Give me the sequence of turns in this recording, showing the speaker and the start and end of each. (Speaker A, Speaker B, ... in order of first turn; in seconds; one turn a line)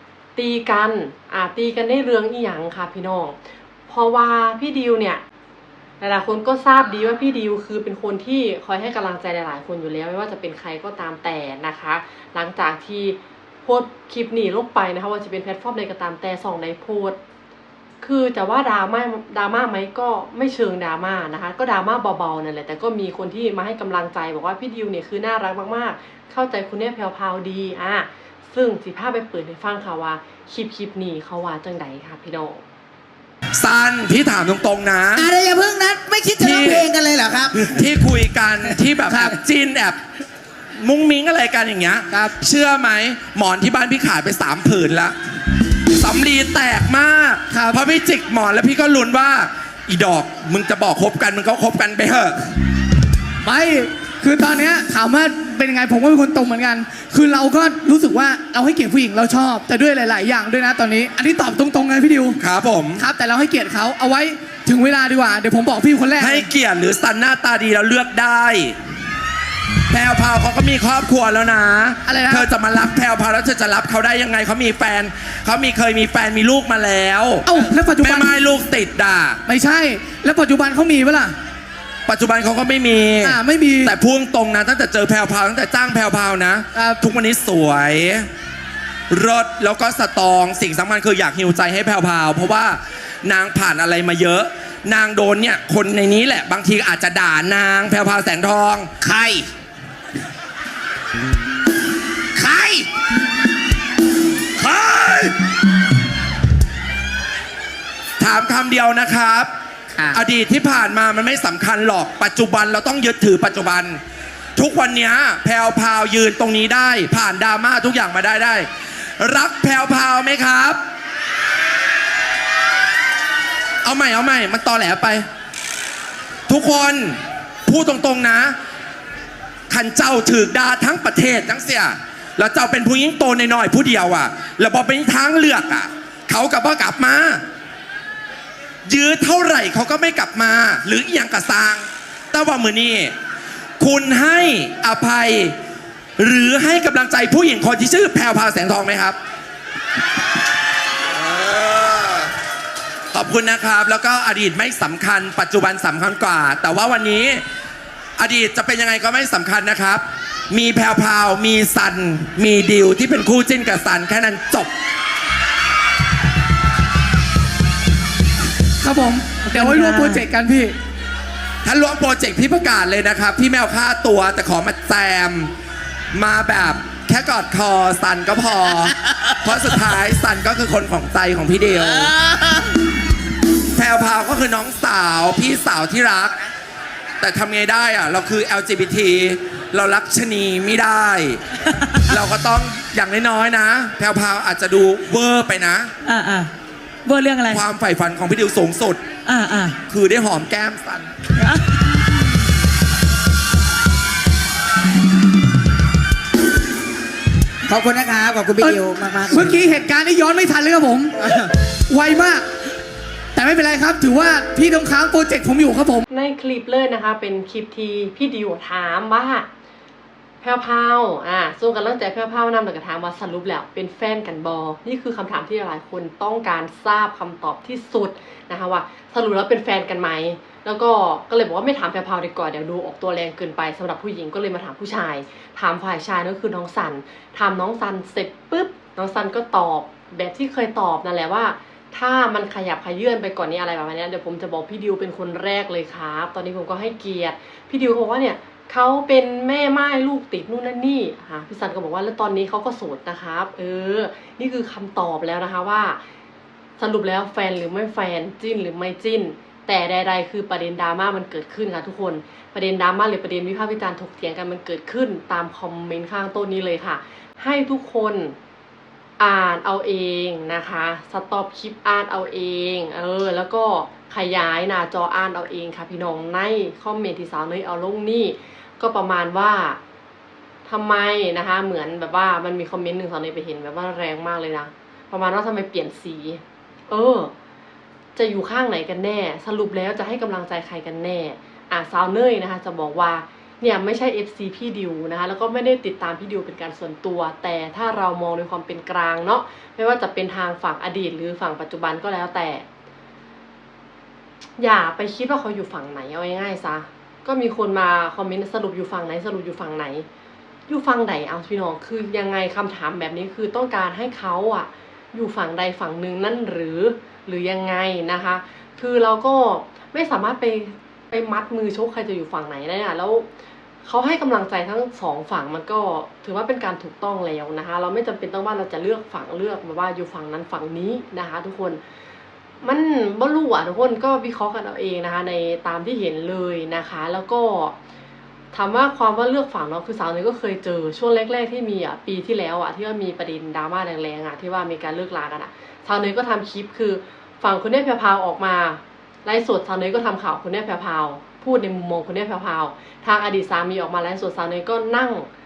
Speaker A: 0.4-3.4
Speaker A: 3.9-5.2
Speaker A: 6.0-17.2
Speaker A: 18.0-32.6
Speaker B: 33.6-35.3
Speaker C: 35.1-37.6
Speaker B: 36.4-36.9
Speaker B: 37.5-40.0
Speaker D: 39.1-39.4
Speaker B: 40.7-45.1
Speaker B: 45.9-52.5
Speaker D: 47.5-47.8
Speaker D: 53.4-62.4
Speaker B: 62.4-63.0
Speaker D: 63.0-66.5
Speaker B: 66.2-68.8
Speaker B: 69.9-77.5
Speaker D: 72.1-72.5
Speaker D: 77.5-78.3
Speaker B: 78.0-79.4
Speaker D: 79.5-81.3
Speaker B: 82.1-88.3
Speaker D: 83.2-84.0
Speaker D: 86.8-87.0
Speaker B: 89.1-98.9
Speaker C: 99.0-99.5
Speaker C: 102.4-102.9
Speaker C: 104.6-105.3
Speaker B: 108.2-109.5
Speaker B: 110.1-114.0
Speaker B: 114.6-118.7
Speaker B: 119.2-120.8
Speaker B: 123.8-125.2
Speaker B: 126.5-128.5
Speaker B: 129.7-137.4
Speaker B: 138.9-143.1
Speaker B: 143.8-145.5
Speaker B: 146.2-149.2
Speaker B: 151.2-152.3
Speaker B: 153.1-157.4
Speaker B: 158.2-164.7
Speaker D: 168.8-170.8
Speaker E: 169.8-170.2
Speaker B: 171.7-175.5
Speaker B: 176.1-182.2
Speaker B: 183.8-186.5
Speaker B: 187.2-191.4
Speaker B: 192.1-195.9
Speaker E: 196.1-196.5
Speaker D: 196.1-196.5
Speaker E: 197.1-197.6
Speaker B: 197.5-199.1
Speaker E: 199.3-199.8
Speaker B: 199.9-201.1
Speaker C: 207.7-209.7
Speaker D: 208.6-211.4
Speaker D: 211.9-212.4
Speaker D: 213.3-216.1
Speaker A: 216.1-219.5
Speaker A: 220.4-256.0
Speaker A: 256.8-268.4
Speaker A: 269.2-279.8
Speaker A: 280.6-287.3
Speaker A: 288.2-302.6
Speaker A: 304.6-310.1
Speaker A: 310.7-323.3
Speaker A: 323.8-331.8
Speaker A: 332.6-337.8
Speaker A: 338.5-355.3